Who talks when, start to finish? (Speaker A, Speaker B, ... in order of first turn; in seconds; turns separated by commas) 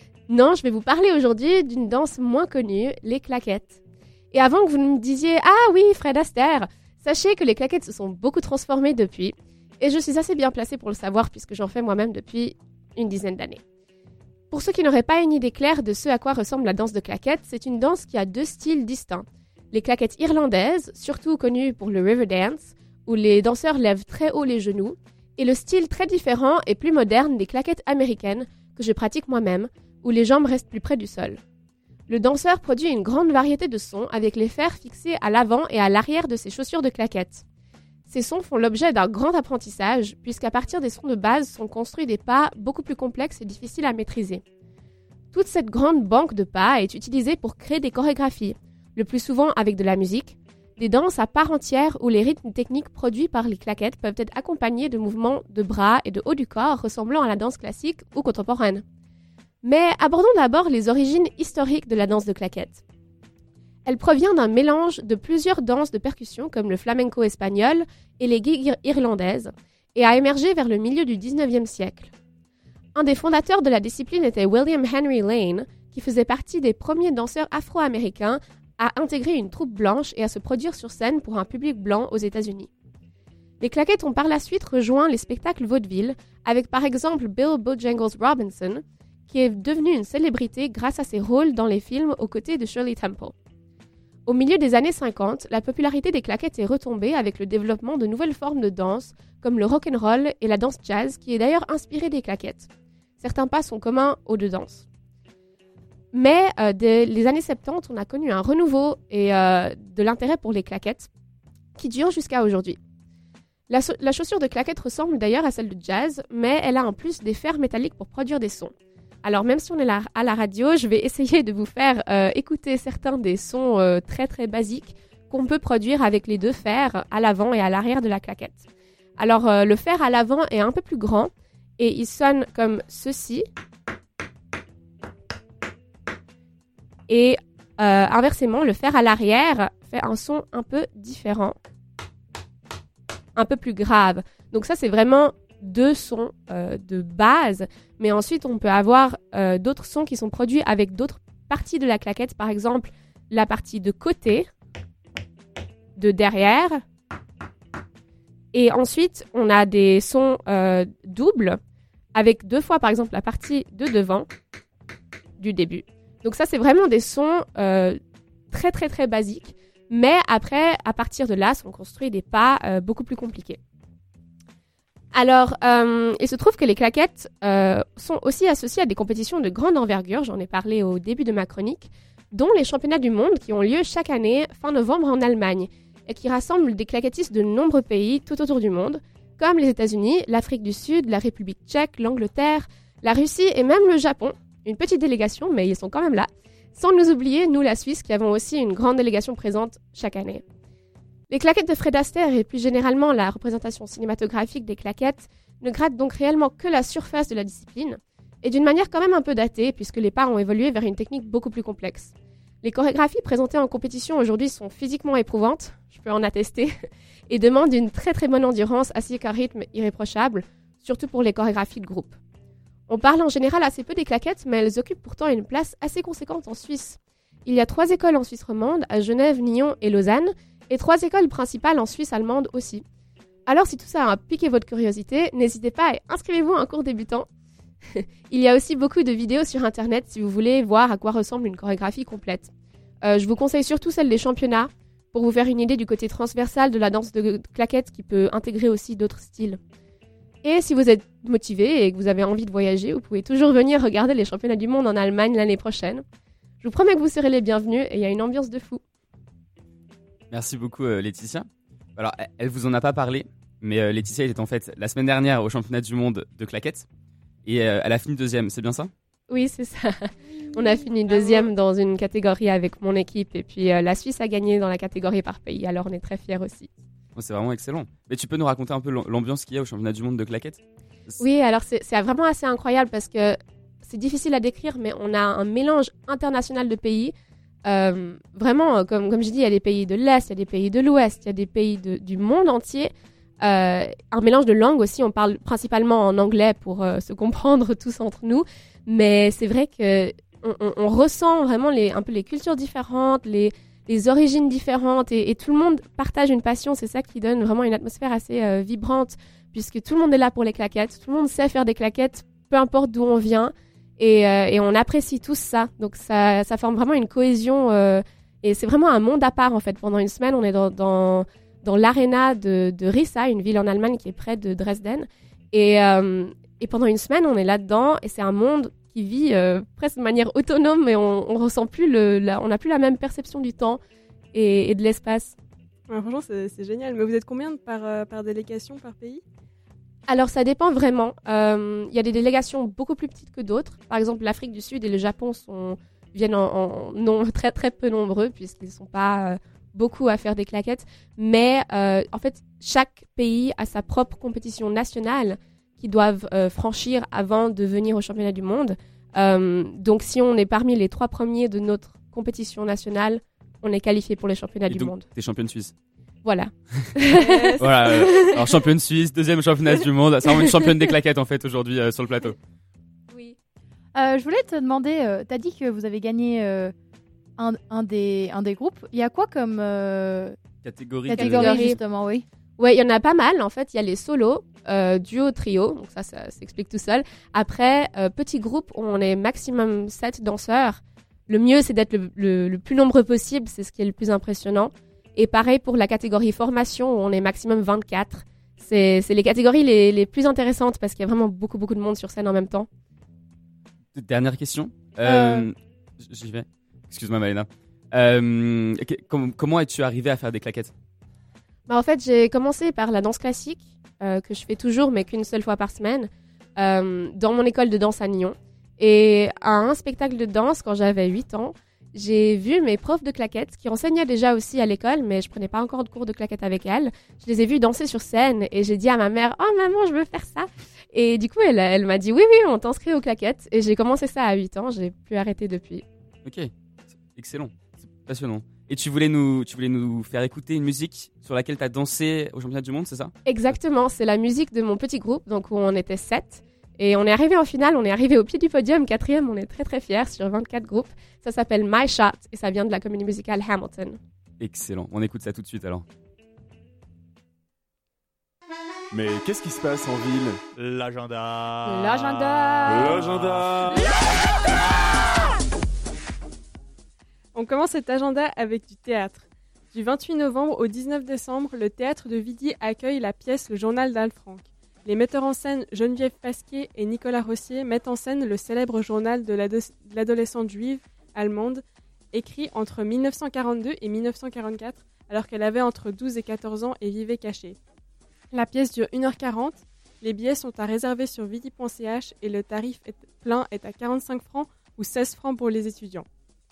Speaker A: 0.3-3.8, Speaker A: 4.3-13.6, Speaker A: 14.5-31.4, Speaker A: 32.1-37.4, Speaker A: 38.1-44.4, Speaker A: 45.3-58.8, Speaker A: 59.6-62.8, Speaker A: 63.9-72.1, Speaker A: 73.0-82.7, Speaker A: 83.6-93.3, Speaker A: 94.2-102.7, Speaker A: 103.2-104.8, Speaker A: 106.1-111.1, Speaker A: 111.8-112.8, Speaker A: 113.7-118.7, Speaker A: 119.2-128.6, Speaker A: 129.2-133.5, Speaker A: 137.1-141.6, Speaker A: 143.3-154.5, Speaker A: 155.9-156.8, Speaker A: 158.5-161.6, Speaker A: 162.1-164.3, Speaker A: 165.4-168.0, Speaker A: 168.5-173.6, Speaker A: 175.1-200.4, Speaker A: 201.3-212.1, Speaker A: 212.6-216.7, Speaker A: 217.3-222.1, Speaker A: 222.9-232.8, Speaker A: 233.5-237.3, Speaker A: 237.9-242.5, Speaker A: 243.0-249.6, Speaker A: 250.4-256.0, Speaker A: 256.6-258.8, Speaker B: 260.3-266.9, Speaker B: 267.4-268.9, Speaker A: 269.3-276.7, Speaker B: 277.1-281.2, Speaker A: 281.2-287.1, Speaker A: 287.6-292.9, Speaker A: 293.4-333.8, Speaker A: 334.3-335.3, Speaker C: 335.9-339.2, Speaker A: 340.1-365.0, Speaker B: 364.7-365.7, Speaker A: 366.2-368.5, Speaker D: 367.1-367.9, Speaker B: 367.6-372.4, Speaker D: 373.9-376.7, Speaker D: 377.4-380.4, Speaker B: 380.6-381.6, Speaker D: 381.1-382.2, Speaker A: 381.1-381.8, Speaker A: 382.6-402.7, Speaker B: 403.9-410.7, Speaker D: 405.1-405.4, Speaker A: 411.7-435.8, Speaker B: 436.2-436.5, Speaker B: 437.1-443.1, Speaker A: 443.2-454.0, Speaker B: 454.4-455.8, Speaker E: 458.9-461.9, Speaker D: 461.7-462.9, Speaker E: 462.6-463.8, Speaker C: 467.3-487.6, Speaker C: 488.3-496.1